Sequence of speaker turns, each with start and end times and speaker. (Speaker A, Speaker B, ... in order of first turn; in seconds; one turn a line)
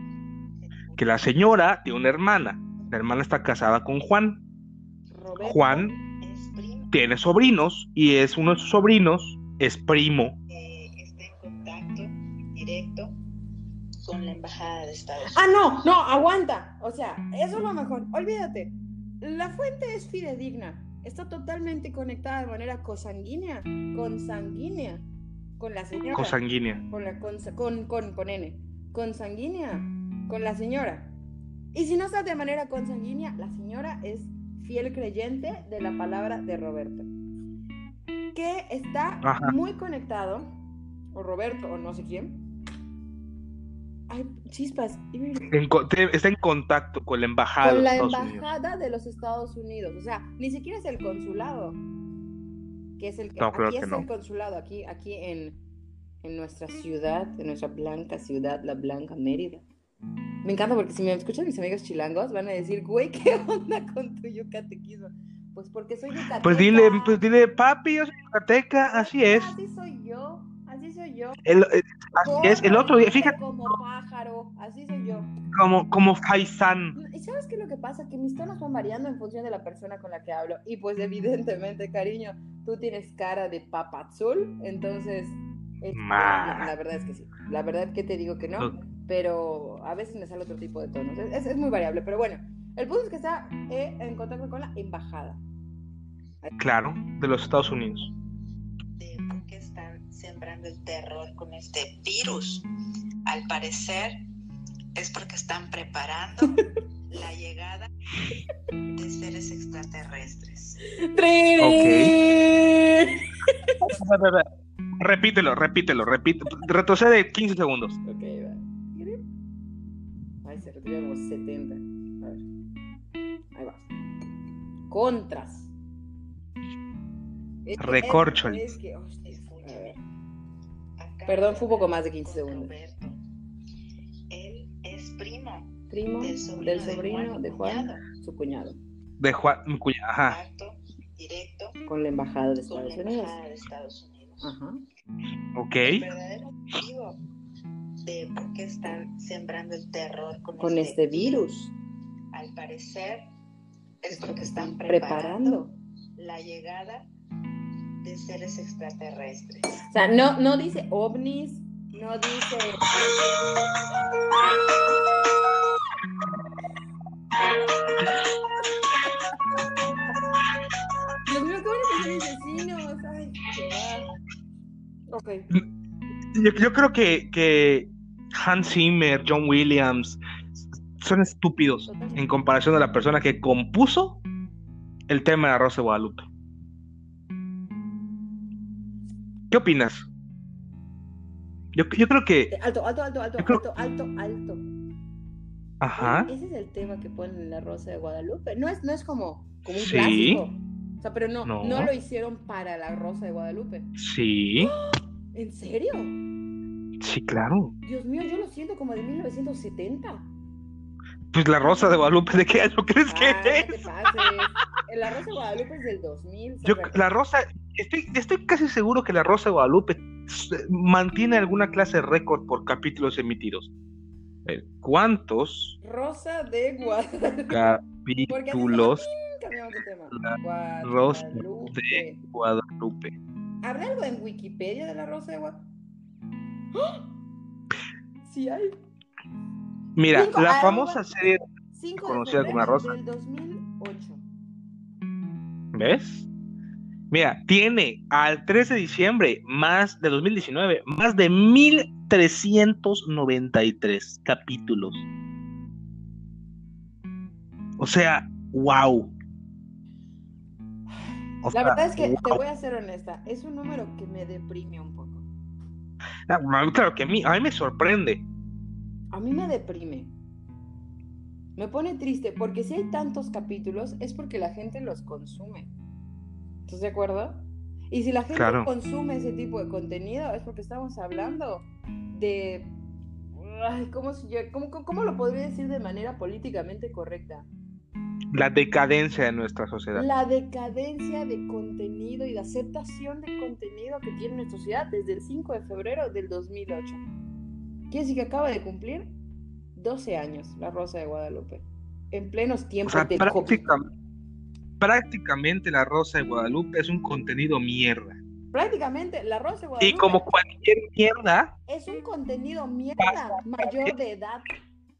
Speaker A: 0.6-1.0
Speaker B: 1.0-4.4
Speaker C: 5.1-6.0
Speaker B: 5.4-5.9
Speaker A: 6.1-6.9
Speaker B: 6.9-10.4
Speaker A: 10.5-13.1
Speaker A: 14.0-15.4
Speaker C: 15.3-25.0
Speaker C: 25.6-26.4
Speaker B: 26.1-26.8
Speaker C: 26.9-31.1
Speaker C: 31.7-37.1
Speaker C: 38.3-40.5
Speaker B: 39.2-39.5
Speaker C: 41.1-42.4
Speaker C: 44.1-45.5
Speaker B: 45.5-48.4
Speaker C: 47.6-51.8
Speaker C: 53.0-55.6
Speaker B: 53.4-54.1
Speaker C: 56.2-59.6
Speaker C: 60.4-67.2
Speaker B: 66.4-69.5
Speaker C: 68.8-71.4
Speaker B: 71.5-73.4
Speaker C: 72.2-75.3
Speaker B: 75.5-77.0
Speaker C: 76.9-95.4
Speaker B: 85.9-86.7
Speaker B: 96.6-98.1
Speaker A: 99.0-102.6
Speaker A: 103.2-104.2
Speaker A: 104.9-107.9
Speaker A: 108.9-110.8
Speaker C: 111.0-113.2
Speaker B: 111.6-112.1
Speaker B: 113.9-114.5
Speaker B: 115.0-118.0
Speaker C: 118.0-119.2
Speaker C: 120.4-122.4
Speaker C: 123.5-123.8
Speaker C: 124.9-125.7
Speaker C: 127.6-130.0
Speaker B: 127.8-128.7
Speaker A: 129.2-130.0
Speaker A: 131.0-133.2
Speaker C: 131.3-132.7
Speaker A: 134.3-138.0
Speaker C: 135.9-138.8
Speaker B: 139.2-140.4
Speaker A: 140.2-141.8
Speaker C: 141.9-143.3
Speaker A: 142.7-144.5
Speaker C: 144.4-144.8
Speaker B: 145.5-146.0
Speaker A: 145.8-147.2
Speaker A: 148.0-151.4
Speaker C: 150.6-151.7
Speaker A: 152.3-153.2
Speaker A: 154.0-157.1
Speaker C: 154.1-155.7
Speaker A: 158.0-159.8
Speaker C: 159.9-162.9
Speaker C: 171.3-174.1
Speaker C: 175.1-175.5
Speaker B: 176.3-184.2
Speaker C: 181.9-182.2
Speaker B: 185.1-186.3
Speaker B: 189.5-190.1
Speaker B: 191.7-192.5
Speaker C: 192.5-194.7
Speaker B: 195.8-196.3
Speaker C: 196.0-203.9
Speaker B: 199.8-200.4
Speaker B: 201.4-201.9
Speaker B: 204.0-204.7
Speaker C: 204.6-206.2
Speaker B: 207.0-207.7
Speaker C: 207.8-210.3
Speaker B: 211.3-214.2
Speaker C: 213.1-217.0
Speaker B: 216.6-223.7
Speaker B: 224.4-225.8
Speaker C: 225.8-227.6
Speaker B: 227.5-229.1
Speaker C: 228.3-232.2
Speaker B: 230.2-233.2
Speaker C: 233.6-235.6
Speaker C: 236.7-237.0
Speaker C: 238.2-238.7
Speaker B: 239.9-241.4
Speaker C: 240.1-241.1
Speaker C: 241.7-244.2
Speaker B: 242.0-242.9
Speaker B: 245.7-246.3
Speaker B: 247.1-255.1
Speaker B: 257.8-259.1
Speaker B: 261.4-262.4
Speaker C: 261.5-265.2
Speaker B: 266.3-268.2
Speaker C: 269.1-270.1
Speaker C: 271.6-275.7
Speaker C: 276.7-282.8
Speaker B: 278.3-278.7
Speaker C: 283.3-287.5
Speaker B: 288.3-290.1
Speaker C: 289.9-297.0
Speaker C: 297.9-299.1
Speaker C: 299.7-303.6
Speaker B: 302.9-303.9
Speaker B: 304.8-308.2
Speaker C: 308.5-310.3
Speaker B: 309.8-311.5
Speaker C: 311.7-314.5
Speaker B: 313.0-313.9